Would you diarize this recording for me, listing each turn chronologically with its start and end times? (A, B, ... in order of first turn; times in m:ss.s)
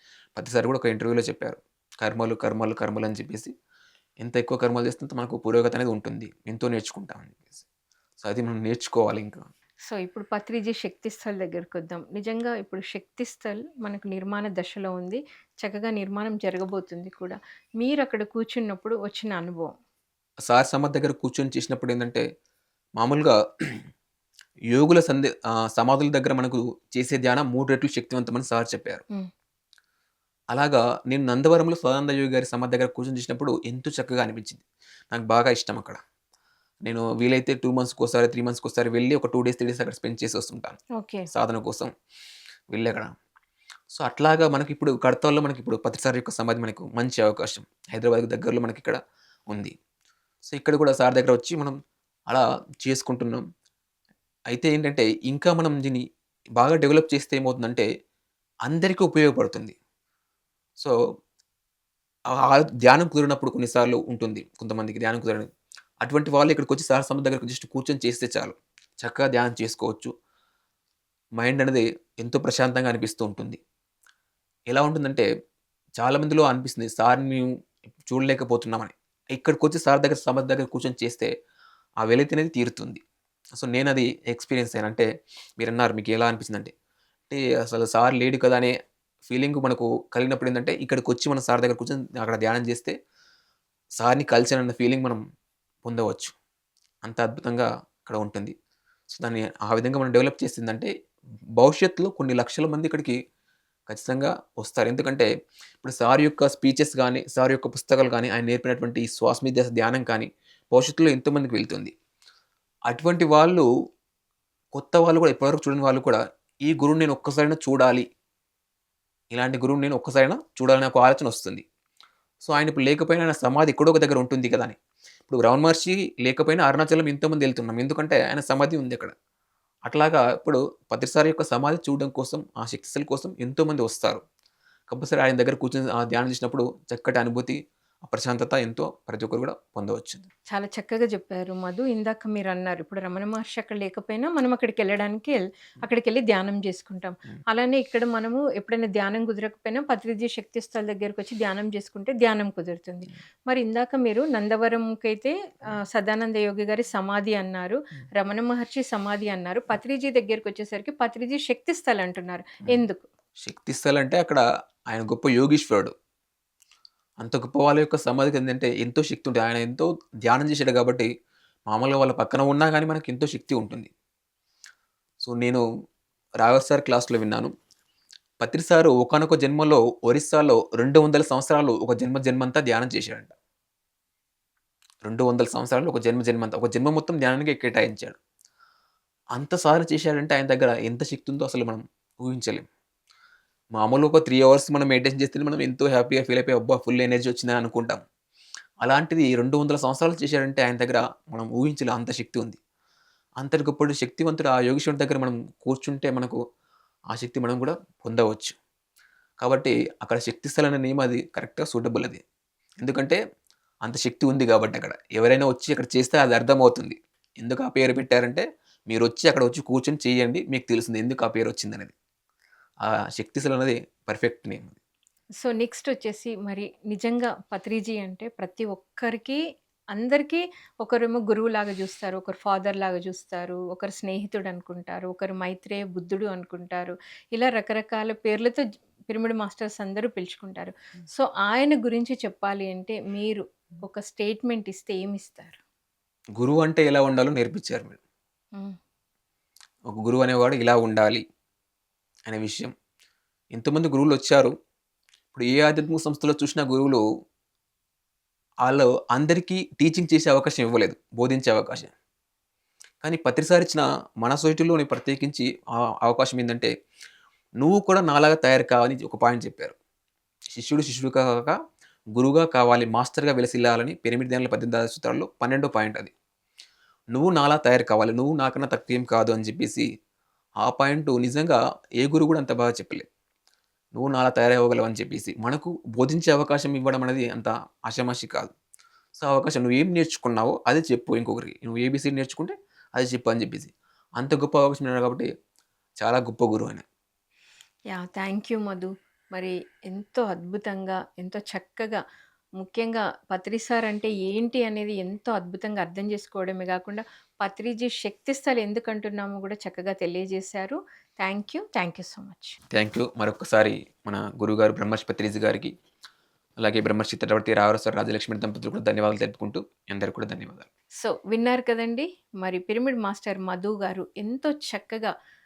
0:00.4-0:03.5 A
0:04.2-0:07.6 A
0:08.2-0:09.4 A
0:09.9-0:19.7 B
0:20.5-0:22.2 A
0:23.0-0:23.8 A
0:24.7-0:29.0 A
0:30.5-0:36.0 A
0:36.8-0:40.8 A
0:41.0-0:41.3 B
0:41.3-0:41.9 A
0:42.7-0:43.1 A
0:44.0-0:49.0 A
0:49.5-0:49.7 A
0:50.5-0:51.8 A
0:52.3-0:53.4 A
0:54.5-0:56.0 A
0:56.6-0:57.9 A
0:58.7-0:59.8 A
1:02.4-1:05.5 A
1:06.0-1:10.1 A
1:11.4-1:13.6 A
1:14.7-1:15.2 A
1:16.0-1:17.5 A
1:18.0-1:21.3 A
1:22.0-1:23.0 A
1:23.6-1:25.1 A
1:25.6-1:26.7 A
1:27.3-1:28.8 A
1:29.3-1:33.0 A
1:34.0-1:35.2 A
1:35.8-1:36.4 A
1:37.0-1:38.5 A
1:39.1-1:40.9 A
1:41.6-1:43.2 A
1:43.9-1:45.3 A
1:45.8-1:51.9 A
1:52.9-1:53.6 A
1:54.8-1:58.1 A
1:59.3-2:01.6 A
2:02.4-2:04.8 A
2:05.3-2:09.1 A
2:09.9-2:14.2 A
2:14.9-2:20.3 A
2:20.5-2:43.0 B
2:43.4-2:45.9 A
2:47.2-2:51.1 A
2:51.7-2:53.9 A
2:55.2-2:55.6 A
2:56.4-2:57.5 A
2:58.4-3:03.3 A
3:05.0-3:08.2 A
3:09.4-3:12.7 A
3:13.8-3:18.0 A
3:18.8-3:22.6 A
3:23.4-3:26.4 A
3:27.1-3:28.6 A
3:29.4-3:32.2 A
3:32.8-3:33.2 A
3:33.8-3:41.9 A
3:42.9-3:44.8 A
3:45.4-3:49.4 B
3:49.9-4:05.6 B
4:06.4-4:08.0 A
4:09.9-4:11.2 A
4:12.3-4:12.7 A
4:13.5-4:14.5 A
4:15.3-4:17.0 A
4:18.6-4:21.9 A
4:23.0-4:26.7 A
4:27.6-4:29.8 A
4:30.6-4:31.6 A
4:32.1-4:36.1 A
4:37.2-4:39.9 A
4:40.6-4:43.1 A
4:44.0-4:48.5 A
4:49.2-4:55.3 A
4:56.0-4:56.8 A
4:57.9-5:02.0 B
5:02.6-5:12.6 B
5:12.7-5:15.7 A
5:16.6-5:20.7 A
5:21.0-5:25.1 B